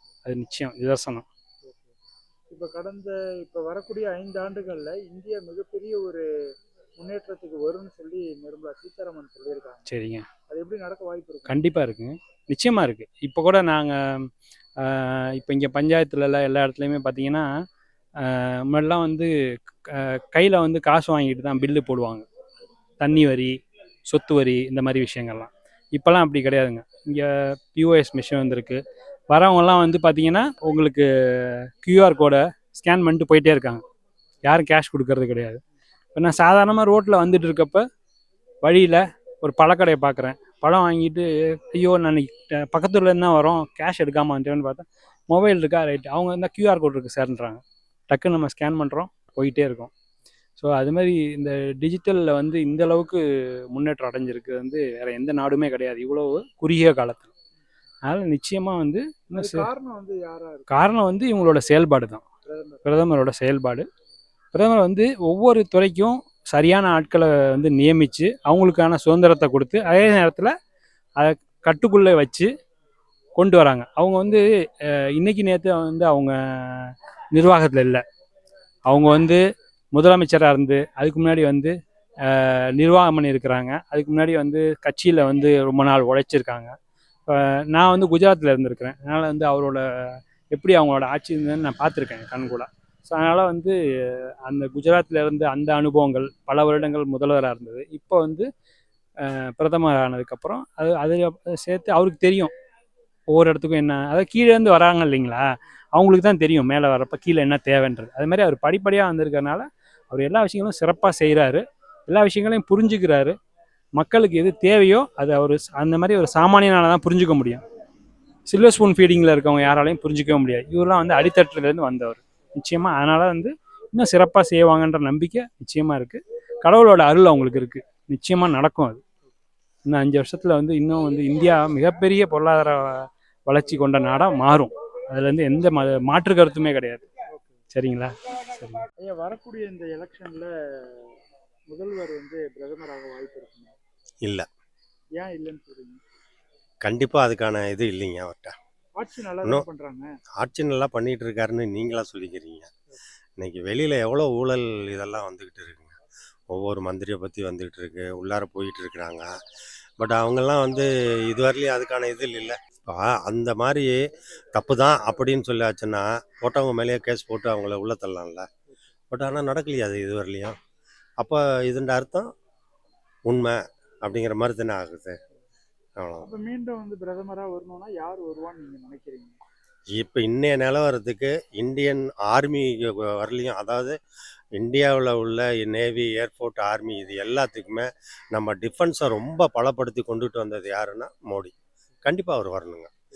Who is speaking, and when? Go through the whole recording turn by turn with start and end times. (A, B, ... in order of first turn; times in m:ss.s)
0:00.2-0:01.2 A
0:02.5-0:06.2 B
0:07.0-0:09.8 B
0:09.9-0:10.2 A
0:10.5-0:11.6 B
0:11.5-0:14.3 A
0:14.8-0:17.5 A
0:18.2-0:19.3 A
0:19.9-0:22.2 A
0:23.0-0:23.6 A
0:24.1-0:33.8 A
0:34.4-0:35.6 A
0:36.1-0:37.8 A
0:38.6-0:49.9 A
0:50.6-0:53.2 A
0:53.7-0:57.3 A
0:58.1-0:59.7 A
0:59.3-1:00.7 B
1:00.7-1:02.2 A
1:02.4-1:02.8 B
1:02.8-1:03.8 A
1:04.5-1:10.5 A
1:11.2-1:12.5 A
1:13.4-1:18.0 A
1:18.9-1:19.4 A
1:19.9-1:21.7 A
1:22.2-1:26.7 A
1:27.3-1:29.8 A
1:30.5-1:38.5 A
1:39.2-1:42.5 A
1:43.3-1:53.3 A
1:54.0-1:57.6 A
1:58.5-2:09.0 A
2:09.8-2:17.0 A
2:17.7-2:18.8 A
2:19.0-2:21.1 B
2:21.7-2:23.7 B
2:24.2-2:24.5 C
2:25.2-2:26.0 B
2:26.8-2:28.6 C
2:29.0-2:30.0 B
2:30.4-2:32.7 C
2:33.4-2:36.0 C
2:36.5-2:39.3 C
2:40.0-2:48.5 C
2:49.1-2:50.6 C
2:51.2-2:52.3 C
2:53.2-2:55.2 C
2:56.0-2:56.3 C
2:56.2-2:59.4 B
2:59.9-3:04.0 C
3:04.5-3:12.9 C